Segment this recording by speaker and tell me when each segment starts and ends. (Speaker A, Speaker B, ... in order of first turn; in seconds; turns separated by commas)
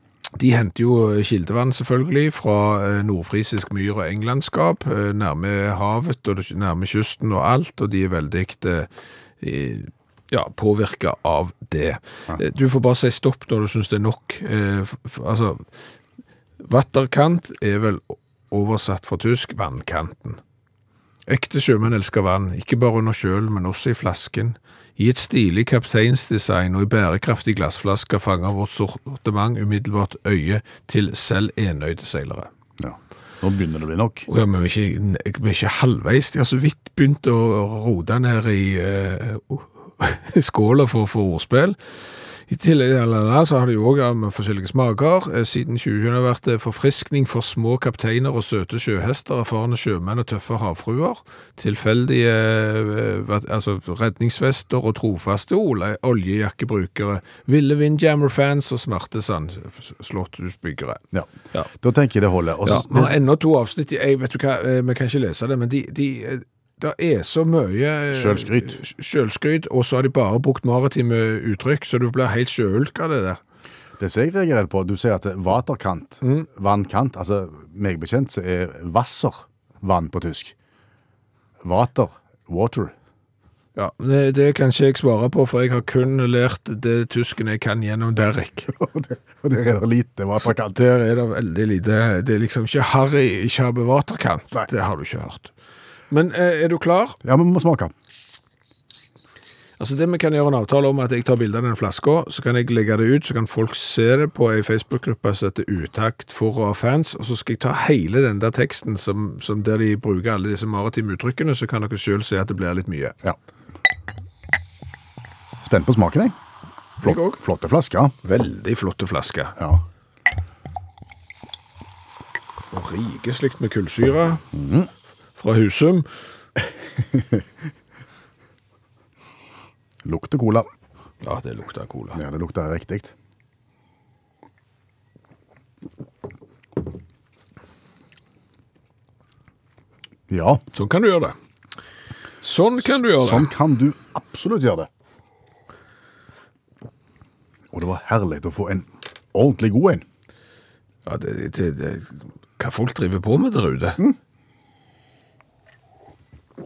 Speaker A: 0.4-8.9, Speaker A: 9.4-15.7, Speaker A: 16.6-20.4, Speaker A: 21.3-32.5, Speaker B: 32.8-34.3, Speaker A: 34.3-41.8, Speaker A: 42.5-61.0, Speaker B: 61.1-63.1, Speaker A: 62.6-73.4, Speaker B: 68.1-68.8, Speaker B: 74.0-80.5, Speaker A: 76.2-76.5, Speaker B: 81.6-82.9, Speaker A: 83.8-88.7, Speaker B: 88.8-90.8, Speaker A: 90.5-95.5, Speaker A: 96.1-97.2, Speaker B: 97.2-97.9, Speaker A: 99.8-113.2, Speaker B: 115.6-116.4, Speaker B: 117.0-118.1, Speaker A: 117.0-117.4, Speaker A: 118.2-119.5, Speaker B: 119.6-119.8, Speaker A: 122.7-124.4, Speaker B: 124.5-124.9, Speaker A: 125.4-126.1, Speaker B: 130.1-130.7, Speaker A: 131.2-132.2, Speaker B: 132.1-133.1, Speaker B: 140.3-140.6, Speaker A: 140.7-141.3, Speaker A: 142.4-143.5, Speaker B: 143.0-144.9, Speaker B: 147.7-150.1, Speaker A: 151.1-154.0